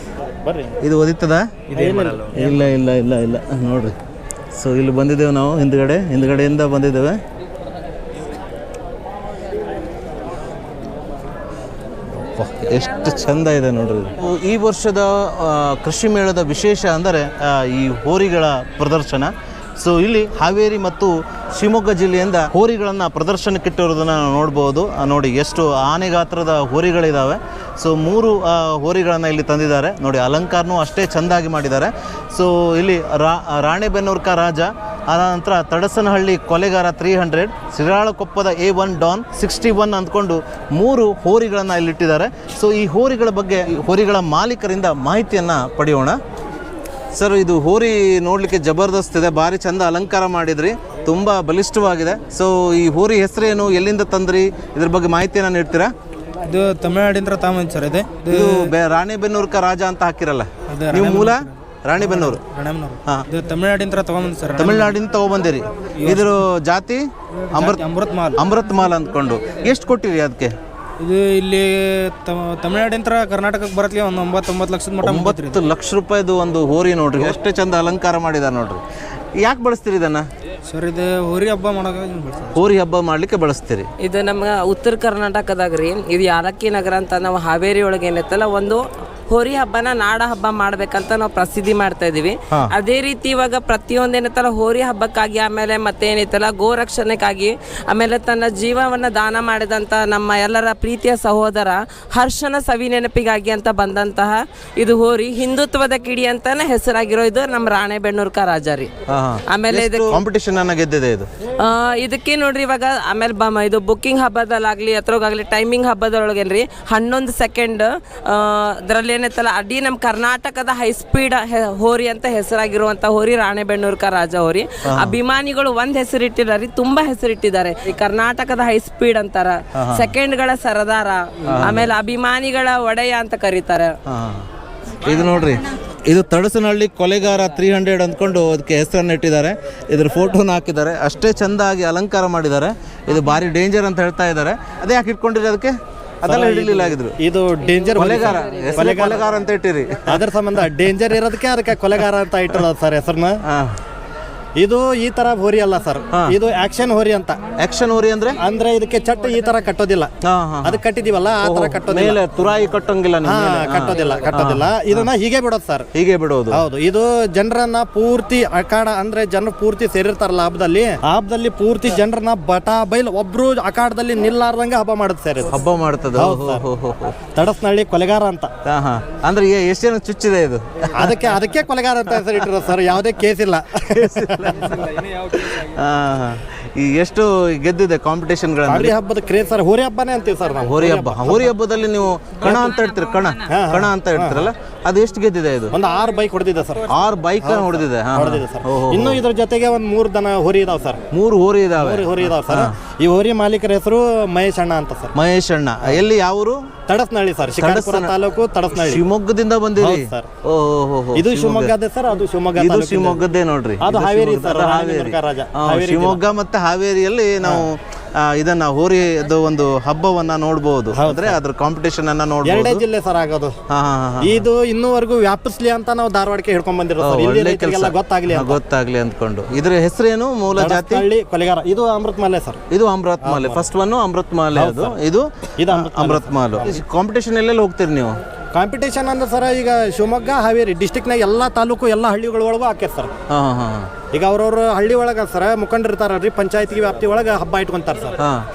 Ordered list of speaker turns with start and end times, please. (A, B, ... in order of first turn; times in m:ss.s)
0:00.8-0:01.6 A
0:01.7-0:02.5 B
0:01.8-0:02.2 C
0:02.3-0:03.9 A
0:04.6-0:07.2 A
0:12.2-0:46.2 A
0:47.2-0:55.9 A
0:56.4-0:58.7 C
0:58.3-1:02.4 A
1:00.7-1:04.9 C
1:04.6-1:07.8 A
1:06.0-1:06.3 C
1:07.5-1:08.4 C
1:08.4-1:10.5 A
1:11.0-1:15.6 C
1:15.0-1:18.8 A
1:19.4-1:20.3 A
1:20.7-1:22.6 C
1:22.6-1:23.9 A
1:24.0-1:48.9 D
1:49.1-1:51.3 A
1:49.5-1:50.2 D
1:51.6-2:13.9 D
2:04.9-2:05.2 A
2:09.8-2:10.1 A
2:11.5-2:11.9 A
2:14.1-2:14.4 A
2:15.0-2:27.2 A
2:26.2-2:29.3 B
2:28.0-2:30.2 A
2:28.2-2:29.0 D
2:30.1-2:33.4 B
2:33.5-2:33.8 A
2:34.6-2:37.4 B
2:37.6-2:38.4 A
2:38.4-2:40.1 B
2:40.2-2:40.8 A
2:40.6-2:42.2 B
2:41.4-2:45.1 A
2:43.2-2:45.9 B
2:45.9-2:46.6 A
2:46.5-2:55.6 B
2:55.5-2:57.2 A
2:56.1-2:56.6 B
2:57.3-2:58.5 B
2:58.7-3:01.3 A
3:00.9-3:04.7 B
3:03.9-3:08.9 A
3:08.7-3:11.6 B
3:10.6-3:15.7 A
3:12.4-3:12.8 B
3:13.4-3:14.5 B
3:15.7-3:21.0 B
3:16.9-3:19.2 A
3:21.1-3:22.7 A
3:21.8-3:25.1 B
3:25.1-3:26.7 A
3:26.9-3:29.0 B
3:27.6-3:28.1 A
3:28.7-3:31.7 A
3:29.8-3:30.3 B
3:31.2-3:33.2 B
3:32.6-3:42.8 A
3:33.8-3:36.2 B
3:40.9-3:41.4 B
3:42.4-3:43.6 B
3:43.7-3:44.4 A
3:44.2-3:48.6 B
3:47.0-3:51.1 A
3:50.6-3:52.6 B
3:52.7-3:58.2 A
3:53.2-3:53.7 B
3:54.5-3:55.0 B
3:55.6-3:56.7 B
3:58.5-4:03.1 B
4:03.3-4:03.9 A
4:04.1-4:08.2 B
4:08.2-4:08.4 A